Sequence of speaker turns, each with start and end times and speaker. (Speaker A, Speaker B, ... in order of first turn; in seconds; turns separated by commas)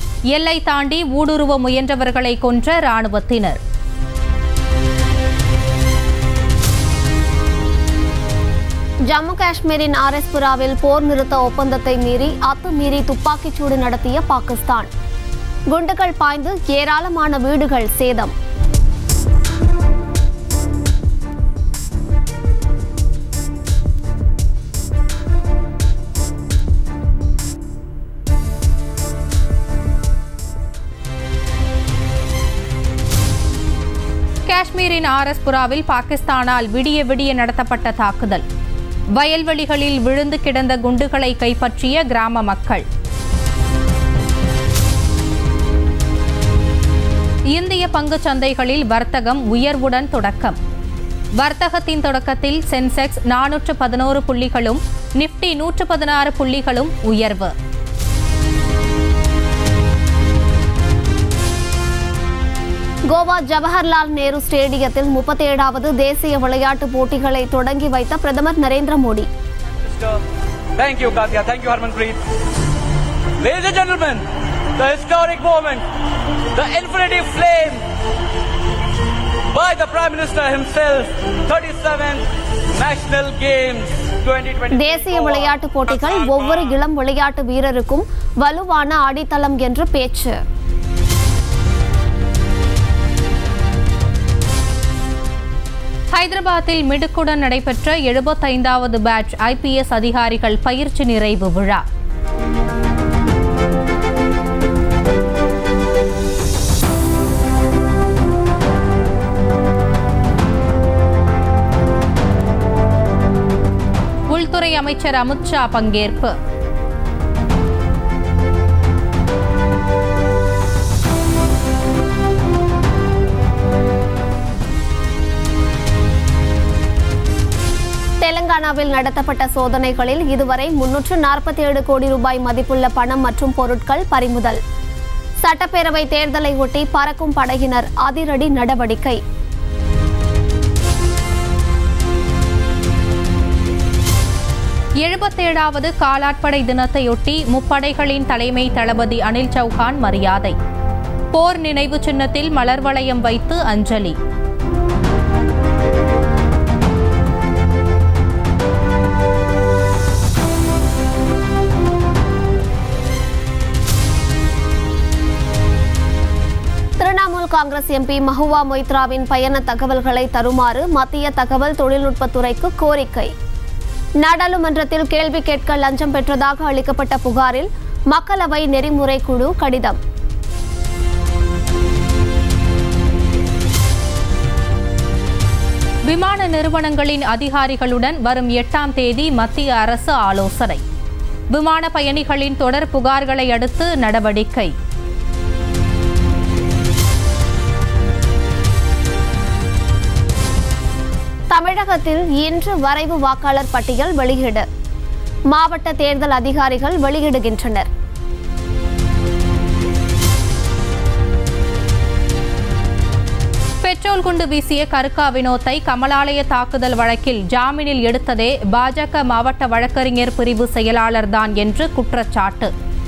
Speaker A: 0.3-3.6, Speaker B: 9.1-14.9, Speaker B: 15.7-18.3, Speaker A: 34.5-38.5, Speaker A: 39.1-42.9, Speaker A: 47.5-50.6, Speaker A: 51.4-57.5, Speaker B: 63.1-69.3, Speaker C: 70.8-72.2, Speaker C: 73.4-75.9, Speaker C: 76.5-77.8, Speaker C: 79.5-84.8, Speaker B: 84.7-90.4, Speaker A: 96.1-101.8, Speaker A: 114.3-116.3, Speaker B: 128.2-134.6, Speaker B: 135.4-139.2, Speaker A: 145.0-150.6, Speaker A: 151.3-154.2, Speaker B: 167.0-173.3, Speaker B: 174.2-180.0, Speaker A: 186.1-190.8, Speaker A: 191.5-194.7, Speaker B: 201.5-204.7, Speaker B: 205.5-207.9, Speaker A: 213.8-222.7